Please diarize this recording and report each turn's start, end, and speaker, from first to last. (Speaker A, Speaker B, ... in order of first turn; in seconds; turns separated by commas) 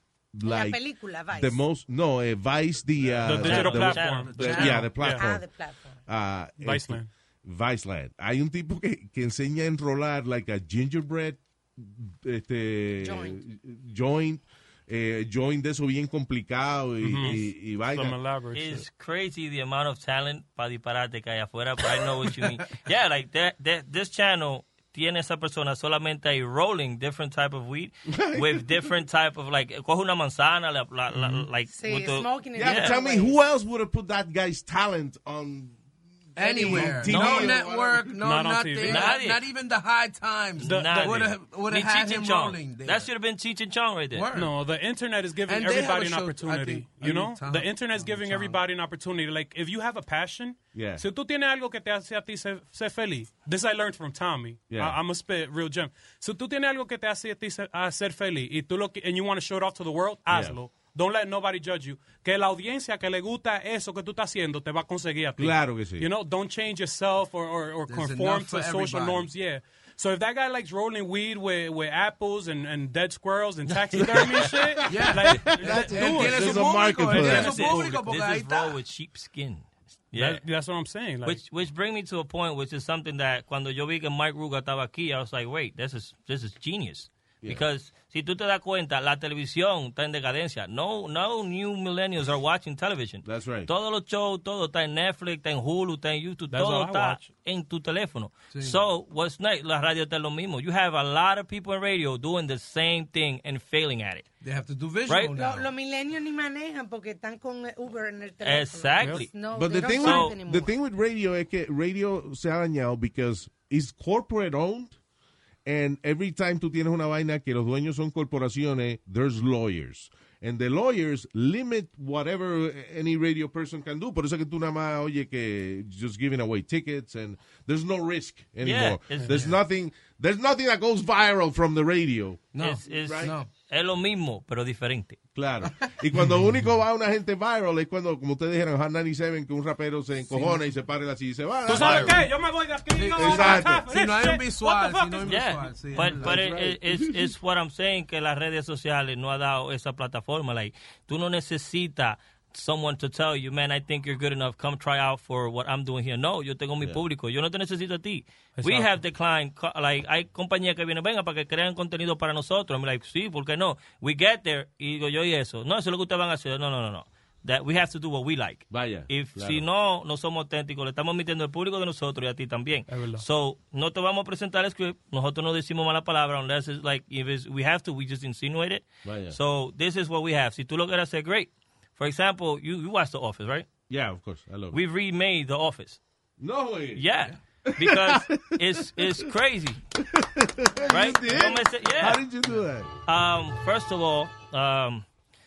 Speaker A: 0.3-5.4, Speaker B: 0.4-1.6, Speaker C: 3.2-5.2, Speaker D: 3.2-4.6, Speaker E: 3.4-4.9, Speaker B: 5.0-6.0, Speaker A: 6.1-18.2, Speaker C: 6.6-7.1, Speaker B: 13.0-13.4, Speaker C: 17.0-18.8, Speaker D: 18.5-33.0, Speaker A: 28.1-28.9, Speaker C: 31.1-31.4, Speaker B: 31.7-33.4, Speaker A: 32.5-35.8, Speaker A: 36.4-38.2, Speaker E: 36.4-43.1, Speaker C: 36.7-37.0, Speaker D: 37.0-37.6, Speaker C: 38.2-39.1, Speaker D: 38.8-39.4, Speaker D: 40.6-44.2, Speaker C: 40.6-41.2, Speaker E: 44.1-44.5, Speaker C: 44.3-77.8, Speaker E: 45.5-48.6, Speaker A: 50.7-51.0, Speaker A: 54.7-55.0, Speaker A: 60.3-60.6, Speaker A: 65.4-66.1, Speaker E: 67.9-69.3, Speaker E: 74.8-78.8, Speaker A: 74.9-77.6, Speaker D: 77.2-80.4, Speaker C: 80.1-81.4, Speaker D: 81.2-104.2, Speaker A: 93.2-93.7, Speaker C: 96.5-97.3, Speaker E: 98.5-98.8, Speaker E: 104.4-105.7, Speaker D: 105.1-105.3, Speaker B: 105.3-110.7, Speaker D: 108.4-109.3, Speaker A: 109.5-115.0, Speaker D: 110.0-110.3, Speaker A: 115.6-133.3, Speaker D: 128.6-129.5, Speaker E: 132.5-133.5, Speaker D: 132.6-135.2, Speaker A: 135.3-142.3, Speaker E: 140.3-140.7, Speaker C: 141.7-145.4, Speaker D: 141.8-142.1, Speaker E: 142.9-146.4, Speaker A: 143.2-143.8, Speaker D: 145.2-183.7, Speaker A: 146.2-147.3, Speaker C: 158.6-158.9, Speaker A: 168.7-169.6, Speaker C: 172.9-173.2, Speaker A: 179.0-179.4, Speaker A: 183.9-184.8, Speaker D: 184.7-186.0, Speaker A: 186.4-187.1, Speaker D: 186.9-189.8, Speaker A: 187.7-189.3, Speaker A: 189.9-192.9, Speaker D: 190.9-192.2, Speaker D: 193.1-195.0